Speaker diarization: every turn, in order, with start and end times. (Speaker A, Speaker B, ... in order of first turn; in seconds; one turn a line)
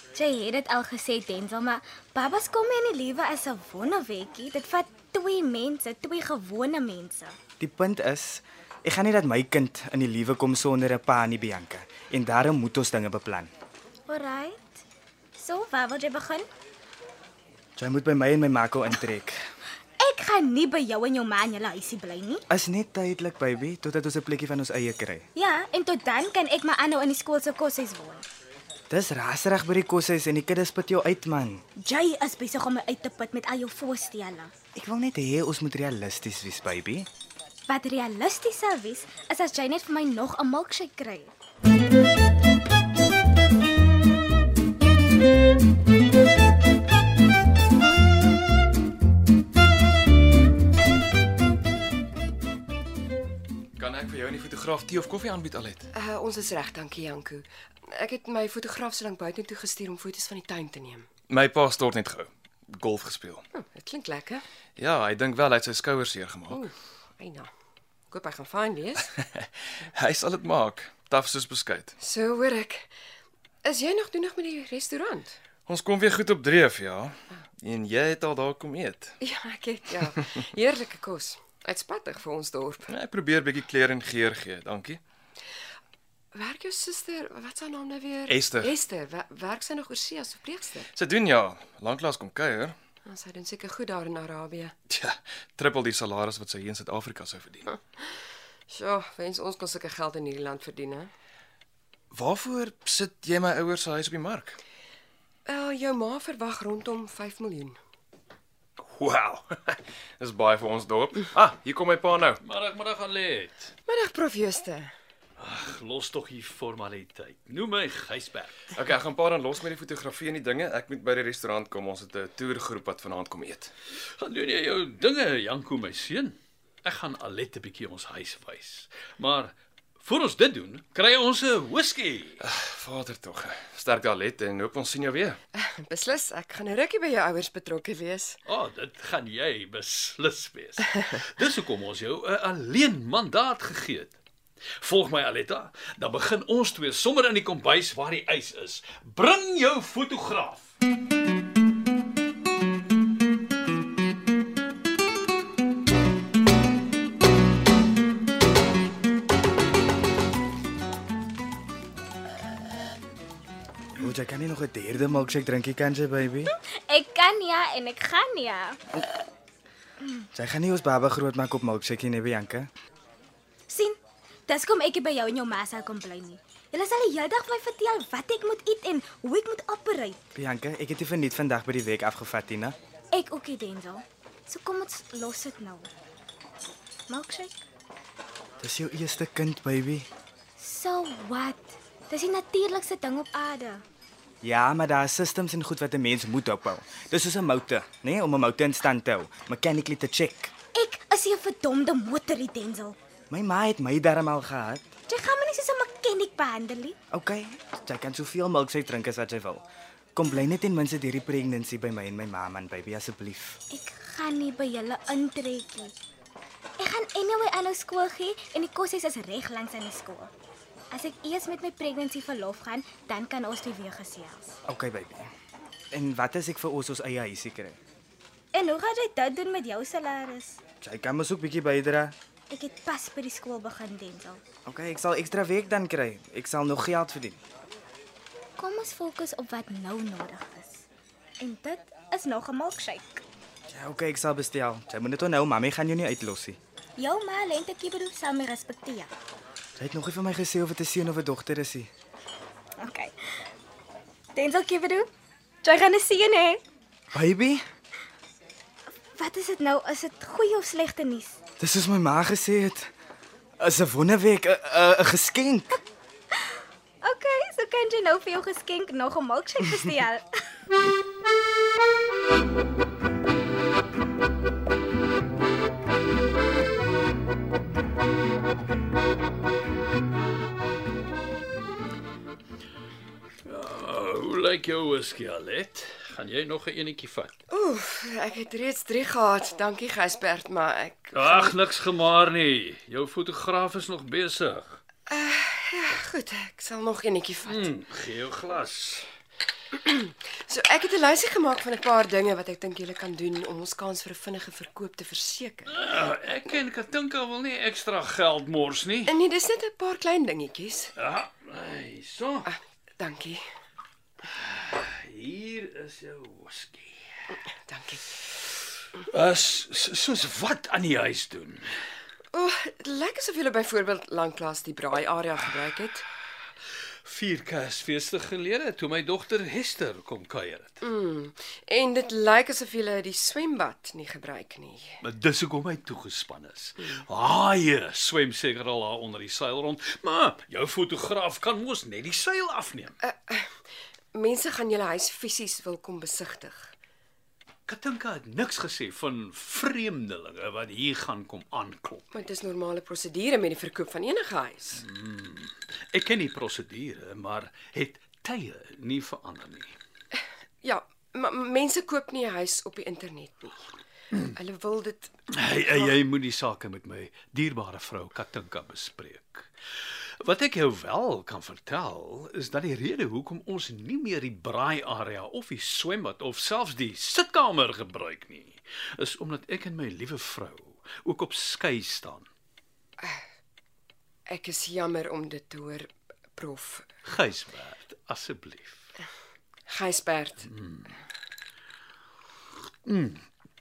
Speaker A: 0.1-7.4
Speaker B: 7.6-13.5
Speaker A: 14.1-14.8
Speaker A: 15.4-16.5
Speaker B: 17.8-19.4
Speaker A: 20.0-22.4
Speaker B: 22.5-25.2
Speaker A: 25.4-28.2
Speaker B: 28.9-31.6
Speaker A: 31.8-34.5
Speaker B: 34.8-37.1
Speaker A: 37.7-41.3
Speaker C: 53.8-55.9
Speaker D: 55.9-61.1
Speaker C: 61.3-63.4
Speaker D: 63.5-64.4
Speaker C: 64.8-66.6
Speaker D: 66.5-67.5
Speaker D: 68.1-69.1
Speaker C: 69.2-71.9
Speaker D: 72.0-72.9
Speaker D: 73.7-75.4
Speaker C: 75.7-79.2
Speaker D: 79.2-82.9
Speaker C: 82.9-85.0
Speaker D: 86.3-90.9
Speaker C: 88.3-88.7
Speaker C: 90.9-92.8
Speaker D: 93.1-94.8
Speaker C: 94.9-97.7
Speaker D: 97.7-98.0
Speaker D: 98.7-101.1
Speaker C: 102.1-104.6
Speaker D: 105.5-107.8
Speaker C: 108.8-112.4
Speaker E: 112.4-113.7
Speaker D: 113.9-114.9
Speaker E: 115.4-118.5
Speaker C: 118.8-123.7
Speaker E: 124.2-132.4
Speaker C: 132.4-135.4
Speaker D: 135.6-138.4
Speaker E: 138.5-144.2
Speaker E: 144.8-150.7
Speaker B: 163.9-166.5
Speaker A: 166.6-168.8
Speaker B: 170.3-172.7
Speaker A: 173.7-180.2
Speaker B: 180.3-182.8
Speaker A: 183.1-185.9
Speaker A: 187.1-187.5
Speaker B: 188.6-190.1
Speaker A: 190.6-193.8
Speaker B: 194.4-200.5
Speaker A: 200.7-203.0
Speaker B: 203.3-204.8
Speaker A: 205.1-206.9
Speaker B: 207.1-209.6
Speaker B: 210.2-213.6
Speaker A: 213.7-215.9
Speaker A: 216.8-220.3
Speaker A: 220.9-224.6
Speaker B: 224.7-225.3
Speaker B: 225.9-227.8
Speaker A: 228.5-230.6
Speaker B: 230.8-232.1
Speaker A: 232.5-234.4
Speaker B: 234.7-237.4
Speaker A: 238.6-240.9
Speaker A: 241.4-243.2
Speaker B: 243.7-246.6
Speaker A: 247.0-249.1
Speaker B: 249.8-251.9
Speaker A: 252.8-253.4
Speaker A: 254.3-255.1
Speaker A: 255.6-256.6
Speaker B: 257.1-257.6
Speaker A: 258.9-261.4
Speaker B: 261.6-262.9
Speaker B: 263.6-265.8
Speaker A: 266.3-270.3
Speaker E: 283.4-287.3
Speaker D: 287.5-291.6
Speaker E: 291.1-294.8
Speaker D: 295.1-297.7
Speaker E: 297.4-299.1
Speaker D: 299.7-305.8
Speaker E: 305.7-309.2
Speaker D: 309.1-310.9
Speaker E: 311.0-312.5
Speaker D: 312.4-313.4
Speaker E: 314.2-317.4
Speaker D: 317.7-318.0
Speaker E: 318.9-321.6
Speaker D: 322.3-326.0
Speaker E: 327.1-330.8
Speaker D: 330.8-335.0
Speaker E: 335.0-342.9
Speaker D: 343.0-343.5
Speaker D: 344.1-346.7
Speaker E: 347.7-352.3
Speaker D: 352.1-354.8
Speaker E: 354.8-359.8
Speaker D: 360.1-363.6
Speaker D: 364.4-365.1
Speaker E: 365.3-369.5
Speaker D: 365.7-365.9
Speaker E: 370.2-382.3
Speaker D: 384.3-386.9
Speaker E: 387.1-388.9
Speaker D: 389.7-390.5
Speaker E: 390.5-391.0
Speaker E: 392.9-393.2